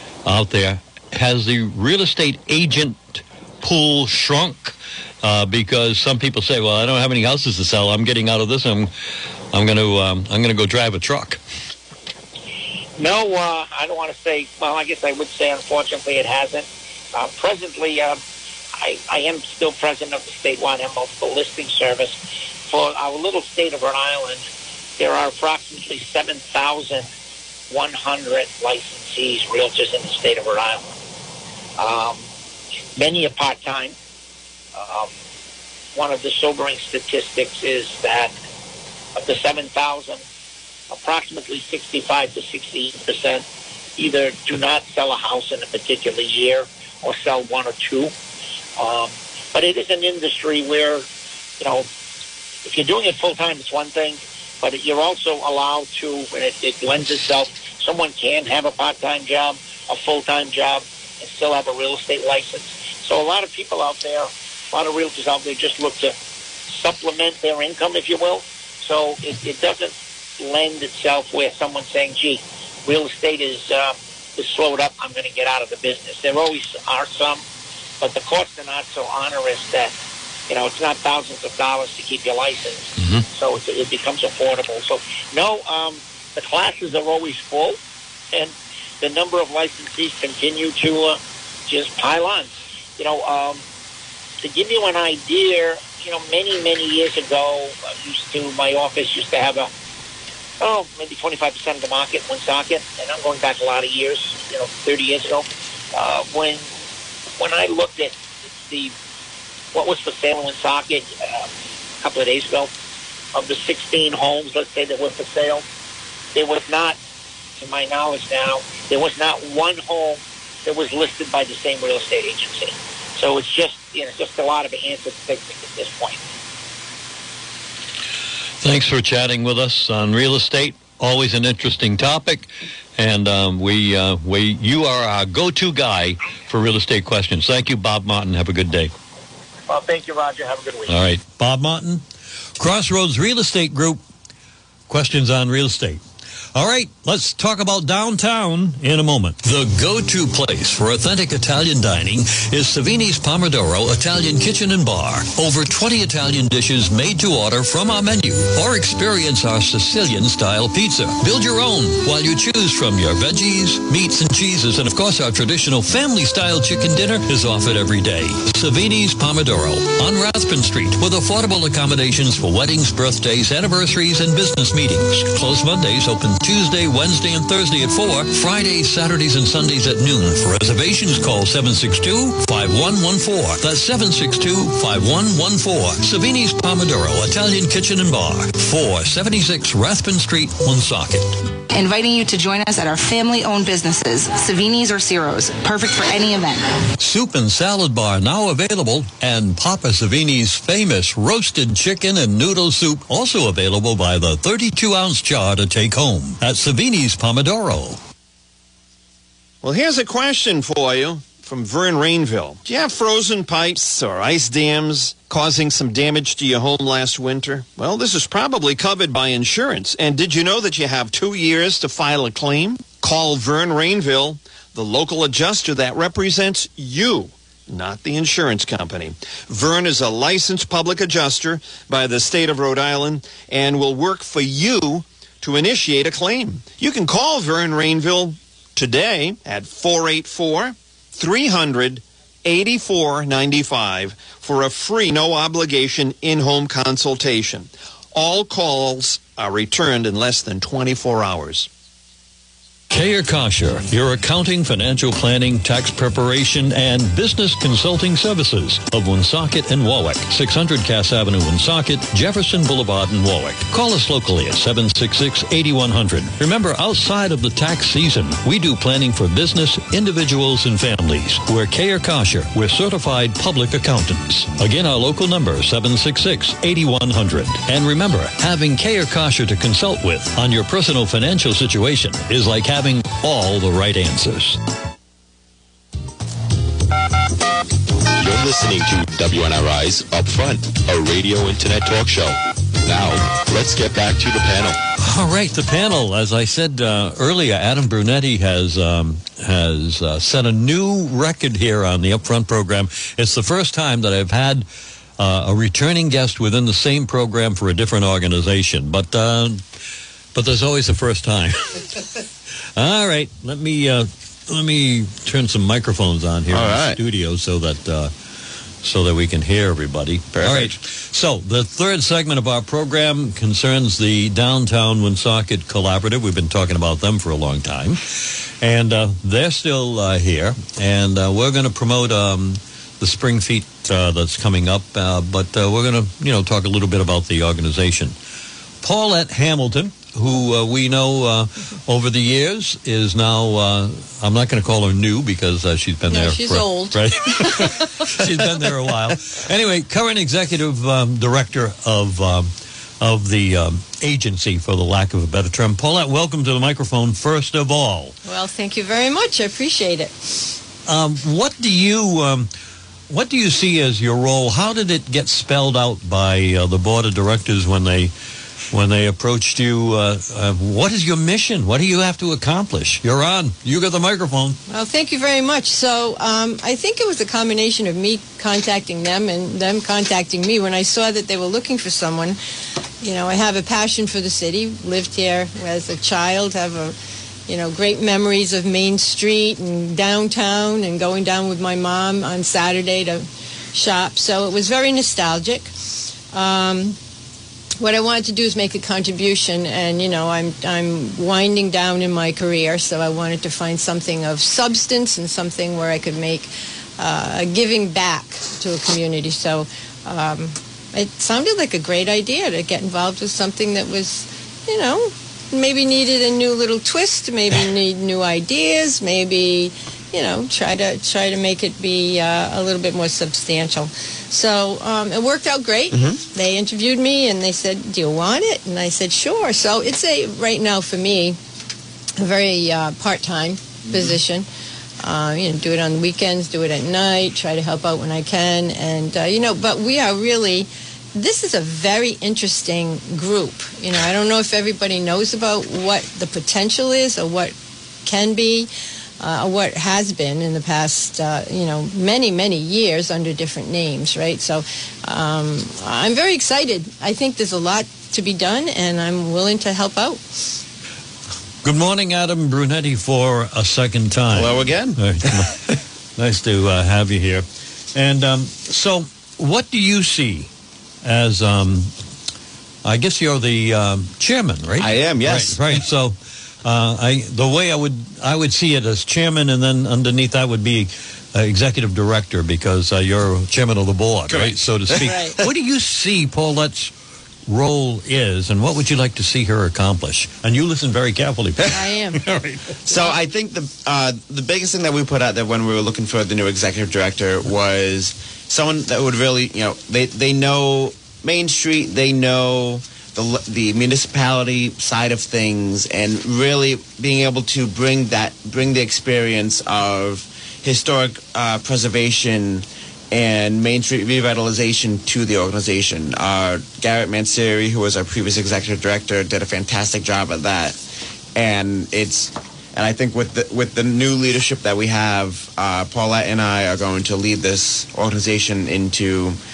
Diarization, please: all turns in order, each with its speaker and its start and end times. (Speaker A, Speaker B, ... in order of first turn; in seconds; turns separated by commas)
Speaker A: 0.2-8.9, Speaker A: 9.5-11.4, Speaker B: 13.0-18.2, Speaker B: 18.8-24.4, Speaker B: 25.0-27.1, Speaker B: 27.7-30.8, Speaker B: 31.8-32.2, Speaker B: 33.0-33.9, Speaker B: 34.7-35.1, Speaker B: 35.9-38.3, Speaker B: 39.1-40.2, Speaker B: 40.9-43.4, Speaker B: 44.0-48.1, Speaker B: 48.8-51.0, Speaker B: 51.6-51.9, Speaker B: 52.6-66.1, Speaker B: 66.7-77.4, Speaker B: 78.0-79.9, Speaker B: 80.5-87.8, Speaker A: 83.0-83.2, Speaker B: 88.3-93.6, Speaker B: 94.4-99.7, Speaker B: 100.6-106.6, Speaker B: 107.4-108.9, Speaker B: 109.7-111.5, Speaker B: 112.0-112.7, Speaker B: 113.3-115.6, Speaker B: 116.3-117.0, Speaker B: 117.6-126.2, Speaker A: 128.6-138.9, Speaker B: 139.7-140.9, Speaker A: 140.9-142.0, Speaker A: 142.6-144.0, Speaker A: 144.9-146.0, Speaker A: 146.5-191.3, Speaker C: 191.7-196.8, Speaker A: 197.0-208.0, Speaker D: 209.6-251.7, Speaker A: 252.9-284.6, Speaker E: 288.2-294.8, Speaker A: 295.0-304.6, Speaker A: 305.2-309.6, Speaker A: 310.3-311.9, Speaker A: 312.8-318.1, Speaker F: 316.5-317.0, Speaker A: 318.8-338.1, Speaker F: 320.3-320.8, Speaker A: 338.8-358.1, Speaker G: 346.1-348.2, Speaker G: 358.2-360.1, Speaker A: 360.9-362.5, Speaker A: 363.1-368.1, Speaker A: 368.7-374.6, Speaker G: 374.7-382.4, Speaker G: 383.0-386.9, Speaker G: 387.5-395.7, Speaker G: 396.3-397.0, Speaker G: 397.8-431.4, Speaker F: 425.9-426.2, Speaker G: 432.2-434.4, Speaker G: 435.0-448.7, Speaker G: 449.2-460.4, Speaker A: 461.6-465.6, Speaker F: 464.3-465.5, Speaker A: 466.2-470.5, Speaker A: 471.0-471.9, Speaker A: 472.8-486.9, Speaker F: 474.8-475.8, Speaker F: 484.3-485.2, Speaker G: 485.0-485.3, Speaker A: 487.5-492.8, Speaker G: 491.7-492.2, Speaker F: 492.8-520.8, Speaker F: 521.3-529.4